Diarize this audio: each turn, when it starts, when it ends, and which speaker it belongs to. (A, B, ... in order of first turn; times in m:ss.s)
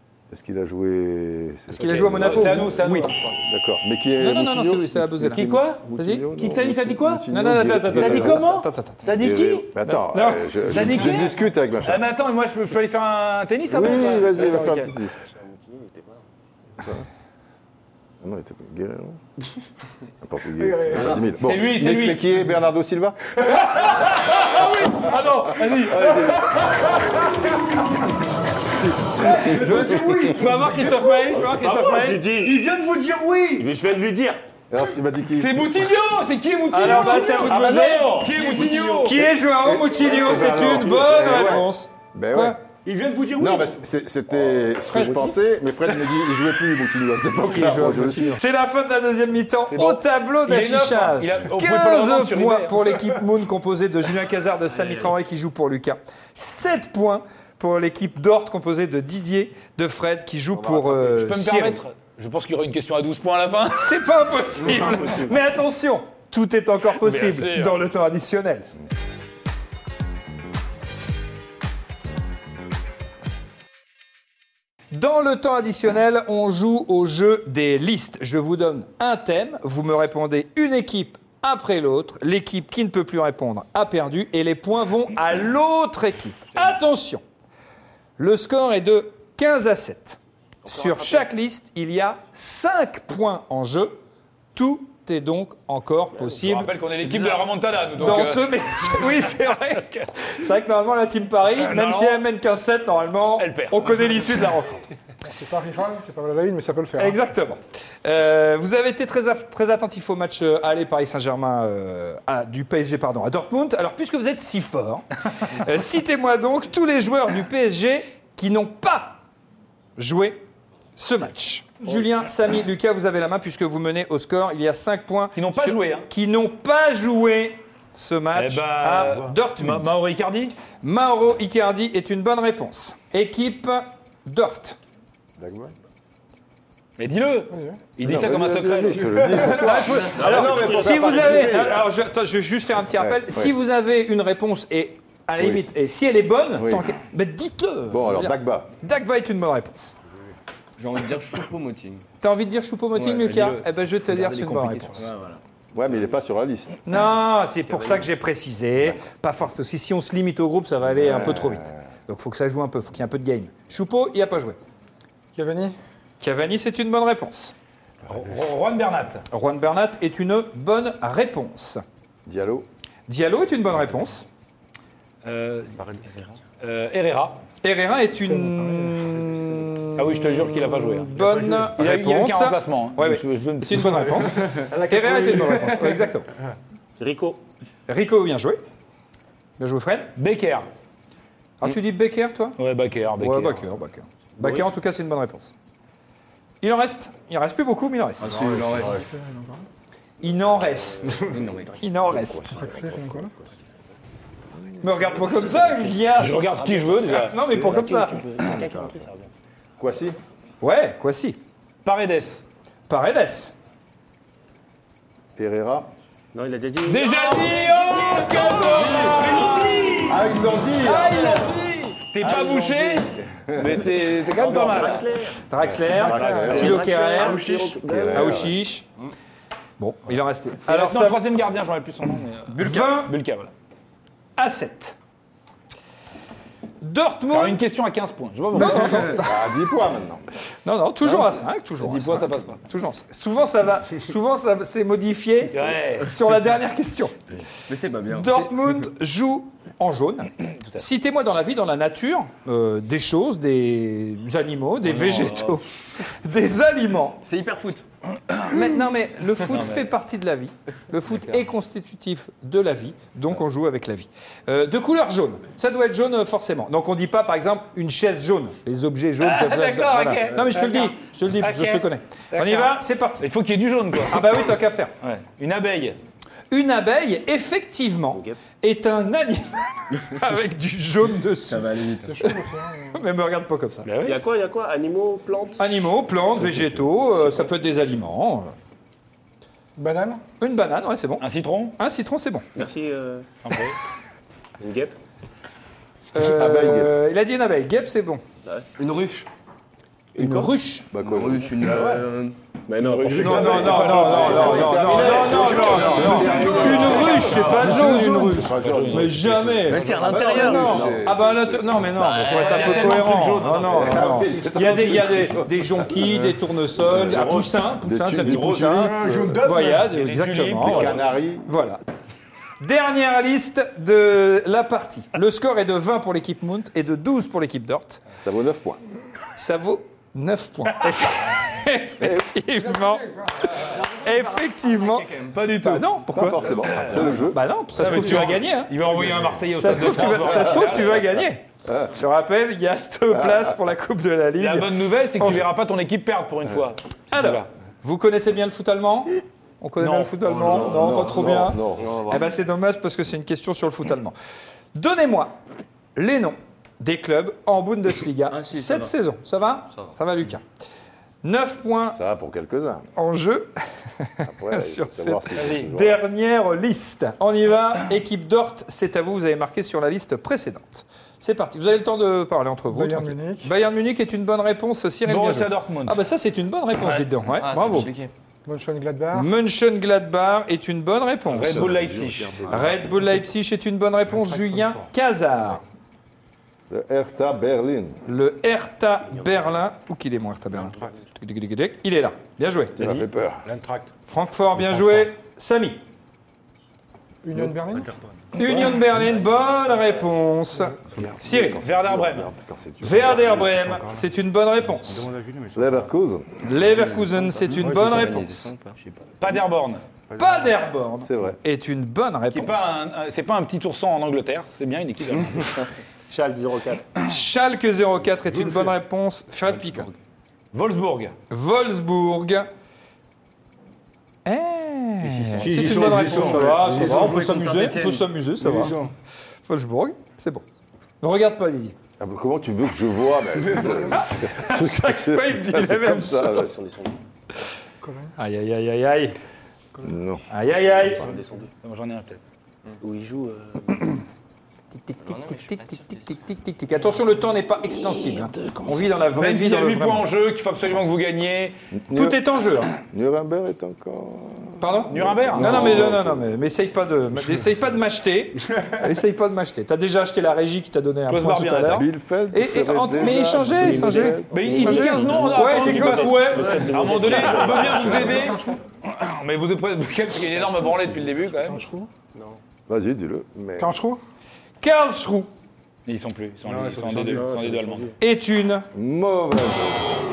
0:00.3-0:08.4 A
0:01.7-0:03.1 B
0:01.9-0:03.3 C
0:04.2-0:06.2 B
0:05.3-0:07.3 C
0:07.3-0:09.1 B
0:07.9-0:14.6 C
0:09.1-0:12.0 A
0:13.7-0:15.2 A
0:14.4-0:14.7 D
0:15.3-0:16.2 D
0:16.8-0:17.1 A
0:18.2-0:19.2 A
0:20.2-0:23.2 A
0:21.2-0:22.2 C
0:23.5-0:26.6 C
0:25.5-0:26.6 E
0:29.2-0:33.7 E
0:29.2-0:32.0 B
0:30.3-0:31.9 C
0:31.4-0:32.5 D
0:33.6-0:34.4 D
0:34.7-0:35.7 A
0:35.3-0:39.3 C
0:36.7-0:38.2 B
0:37.4-0:41.1 E
0:37.4-0:38.1 A
0:39.0-0:42.6 B
0:40.0-0:42.6 A
0:42.8-0:43.8 E
0:43.4-0:48.4 A
0:44.9-0:45.4 B
0:47.5-1:01.8 B
0:47.6-0:48.3 E
0:49.6-0:53.0 C
0:54.8-0:55.1 F
1:00.8-1:04.0 C
1:03.8-1:08.7 B
1:07.0-1:07.8 C
1:14.9-1:27.2 B
1:28.2-1:34.0 B
1:30.7-1:31.2 D
1:34.5-1:36.7 B
1:36.4-1:39.0 C
1:38.0-1:44.8 B
1:41.5-1:42.2 C
1:43.4-1:44.2 C
1:45.2-1:47.2 G
1:47.0-1:59.2 B
2:00.0-2:00.4 B
2:01.0-2:09.9 B
2:05.4-2:06.1 C
2:08.3-2:10.5 C
2:10.8-2:14.8 B
2:15.4-2:15.7 A
2:17.0-2:19.8 C
2:17.5-2:17.8 G
2:18.0-2:21.8 A
2:19.4-2:29.9 B
2:20.1-2:21.8 D
2:22.9-2:23.5 A
2:25.4-2:25.6 A
2:26.6-2:26.9 A
2:27.9-2:28.7 A
2:30.8-2:32.0 F
2:32.2-2:35.0 B
2:33.0-2:33.6 F
2:34.0-2:35.1 C
2:35.0-2:35.4 F
2:35.7-2:36.8 A
2:36.8-2:44.6 B
2:40.9-2:41.8 A
2:45.3-2:45.7 G
2:46.2-2:47.5 B
2:48.1-2:49.2 C
2:49.3-2:51.8 B
2:52.2-2:52.7 A
2:53.1-2:54.2 B
2:55.2-2:57.4 C
2:57.6-3:06.3 B
2:58.2-2:59.1 G
2:59.9-3:04.2 C
3:01.2-3:01.7 E
3:04.4-3:06.1 E
3:07.0-3:07.4 D
3:07.9-3:08.6 B
3:09.6-3:10.1 B
3:10.2-3:10.6 C
3:11.6-3:12.6 B
3:12.6-3:13.6 C
3:13.2-3:15.5 B
3:14.4-3:14.7 D
3:16.6-3:18.6 B
3:18.2-3:19.1 F
3:18.6-3:19.0 A
3:18.8-3:19.6 G
3:20.2-3:22.5 B
3:21.2-3:21.8 F
3:22.1-3:23.3 A
3:22.4-3:23.3 G
3:24.8-3:26.6 B
3:26.2-3:27.5 C
3:27.1-3:28.2 B
3:27.5-3:29.3 D
3:29.8-3:30.2 A
3:30.6-3:31.4 B
3:31.8-3:32.4 C
3:32.9-3:33.5 B
3:35.4-3:35.9 A
3:36.3-3:37.8 D
3:36.8-3:40.3 C
3:37.7-3:40.0 B
3:39.0-3:39.3 A
3:40.0-3:41.5 A
3:40.8-3:42.1 B
3:42.1-3:45.1 C
3:42.3-3:43.9 A
3:44.3-3:45.4 D
3:45.5-3:47.5 B
3:45.6-3:46.9 A
3:46.0-3:47.7 C
3:46.2-3:48.5 D
3:47.8-3:48.6 A
3:48.1-3:48.8 B
3:49.8-3:51.2 B
3:50.7-3:53.5 C
3:52.6-3:53.1 B
3:54.4-3:55.0 B
3:56.8-3:57.6 B
3:57.3-3:59.2 C
3:58.5-3:59.4 B
3:59.1-4:00.2 A
4:00.6-4:07.2 B
4:01.0-4:02.6 C
4:05.5-4:06.1 C
4:07.7-4:08.4 F
4:08.1-4:17.2 B
4:14.8-4:15.6 C
4:17.2-4:17.8 F
4:18.2-4:18.5 C
4:18.4-4:33.3 B
4:19.5-4:19.9 C
4:29.2-4:34.2 C
4:34.1-4:34.9 B
4:35.0-4:36.0 C
4:36.5-4:41.8 B
4:38.1-4:38.4 D
4:41.5-4:42.3 F
4:42.0-4:43.0 G
4:42.9-4:43.9 B
4:43.8-4:44.2 C
4:44.0-4:45.8 D
4:45.6-4:48.5 B
4:46.4-4:46.8 A
4:49.8-4:50.2 G
4:50.4-4:51.2 B
4:51.2-4:51.8 C
4:51.8-4:52.4 B
4:52.5-4:53.2 D
4:53.4-4:53.8 C
4:54.6-4:54.9 D
4:56.1-4:58.2 B
4:56.2-4:57.0 A
4:58.8-4:59.3 F
5:00.2-5:00.9 B
5:00.2-5:00.5 F
5:00.9-5:02.0 A
5:01.0-5:02.3 F
5:02.7-5:04.8 D
5:02.8-5:10.0 C
5:03.1-5:21.8 B
5:03.2-5:12.0 A
5:05.3-5:05.8 D
5:05.6-5:06.5 F
5:05.8-5:07.1 E
5:09.6-5:10.9 F
5:11.9-5:13.1 F
5:12.2-5:14.3 C
5:13.5-5:16.1 A
5:14.1-5:14.5 E
5:16.8-5:19.4 A
5:18.3-5:19.9 E
5:19.8-5:21.1 C
5:20.6-5:21.5 A
5:22.6-5:28.0 B
5:28.2-5:28.8 A
5:29.4-5:38.7 B
5:32.0-5:32.3 A
5:32.6-5:33.6 G
5:33.6-5:35.6 F
5:35.3-5:35.9 C
5:36.1-5:38.2 A
5:36.5-5:37.2 C
5:37.7-5:41.2 C
5:39.0-5:39.3 A
5:39.5-5:45.5 B
5:39.9-5:40.9 A
5:41.6-5:41.9 A
5:43.1-5:43.6 A
5:44.4-5:47.5 C
5:47.1-5:54.2 B
5:49.8-5:51.1 C
5:50.4-5:52.2 A
5:51.8-5:52.3 F
5:54.7-5:55.4 B
5:56.0-6:00.4 B
5:58.3-5:58.9 F
6:01.2-6:02.0 B
6:01.9-6:02.9 A
6:03.0-6:17.9 B
6:04.2-6:06.0 A
6:05.3-6:05.7 C
6:12.7-6:13.5 G
6:15.0-6:16.0 C
6:17.4-6:18.1 F
6:18.4-6:19.3 G
6:19.1-6:21.8 B
6:21.3-6:22.7 C
6:21.3-6:22.9 A
6:22.5-6:25.6 B
6:24.1-6:24.9 E
6:26.7-6:28.0 A
6:28.0-6:33.0 B
6:29.1-6:29.5 D
6:32.8-6:33.4 A
6:33.4-6:33.9 E
6:34.1-6:35.8 B
6:37.2-6:37.9 G
6:37.4-6:38.2 E
6:38.3-6:41.6 B
6:38.4-6:38.8 A
6:40.9-6:41.2 E
6:41.0-6:43.5 A
6:41.4-6:42.3 C
6:42.8-6:45.1 B
6:43.1-6:44.1 E
6:44.6-6:45.9 E
6:45.5-6:46.3 A
6:46.4-6:48.5 B
6:46.6-6:48.8 F
6:47.5-6:48.3 E
6:49.2-6:49.8 C
6:50.1-6:50.6 E
6:50.2-6:52.8 B
6:51.0-6:51.4 A
6:52.3-6:55.5 C
6:56.1-6:56.8 D
6:57.0-6:59.9 B
6:58.2-6:58.7 E
7:00.5-7:01.1 C
7:01.3-7:02.5 B
7:04.2-7:08.8 B
7:05.3-7:08.7 F
7:05.5-7:07.0 E
7:08.4-7:08.9 E
7:09.4-7:10.4 B
7:11.0-7:11.8 B
7:12.0-7:16.5 A
7:13.6-7:16.5 B
7:16.4-7:17.0 D
7:17.8-7:18.1 G
7:18.2-7:19.2 B
7:19.8-7:20.2 A
7:20.3-7:21.1 B
7:20.8-7:21.5 D
7:21.6-7:22.2 C
7:22.8-7:24.0 D
7:24.7-7:30.1 B
7:25.0-7:26.1 F
7:28.2-7:28.7 A
7:29.1-7:31.6 C
7:31.7-7:36.4 A
7:31.9-7:32.7 B
7:34.6-7:46.6 B
7:34.9-7:35.9 C
7:41.1-7:41.9 C
7:41.7-7:44.6 A
7:43.5-7:48.3 D
7:44.3-7:51.6 C
7:47.1-7:48.0 B
7:47.6-7:48.6 G
7:47.7-7:48.3 A
7:51.4-7:51.9 G
7:52.7-7:53.8 A
7:53.6-7:54.0 G
7:54.6-7:55.3 B
7:55.8-7:57.9 C
7:56.4-7:57.5 E
7:57.1-7:57.9 D
7:58.0-7:58.7 B
7:58.7-8:00.0 A